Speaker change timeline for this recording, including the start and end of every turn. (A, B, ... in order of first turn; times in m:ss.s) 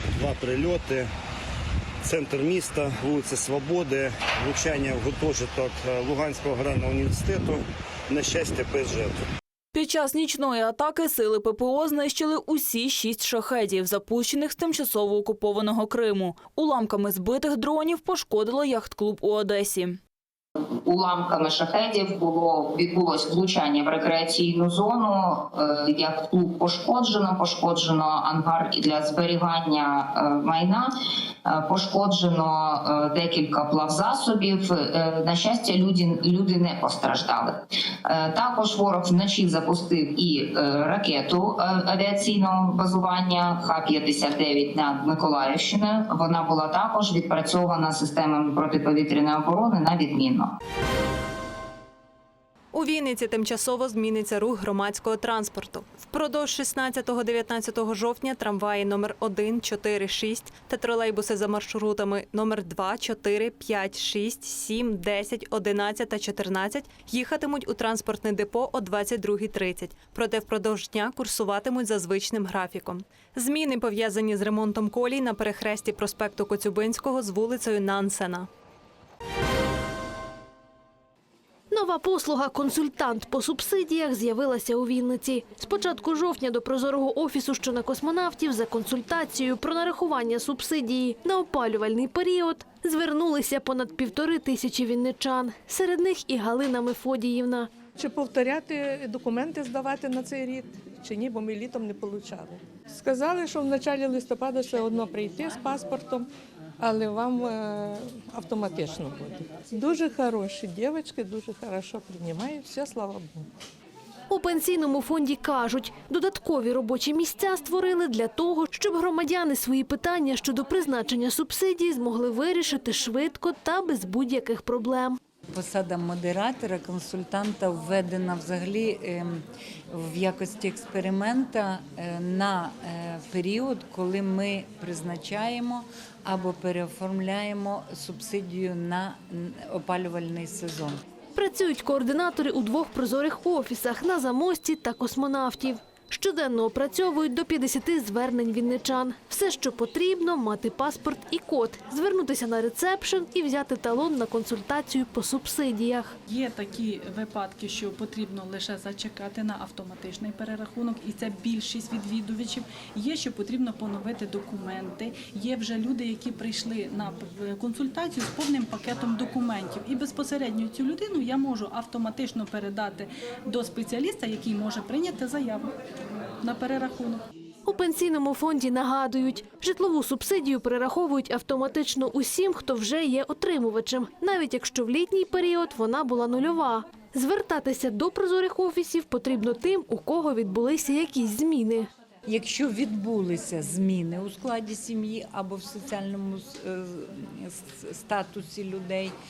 0:00.2-0:01.0 A
0:02.0-0:09.2 A
0:09.7-0:20.0 B
0:20.6-0:50.6 C
0:52.7-1:18.5 D
1:21.7-1:37.8 E
1:38.0-1:46.3 F
1:46.8-1:53.4 F
1:54.3-2:05.2 E
2:05.5-2:21.0 G
2:21.4-2:36.1 E
2:36.3-2:55.7 H
2:56.4-2:57.2 H
2:57.7-3:11.9 E
3:12.3-3:19.1 G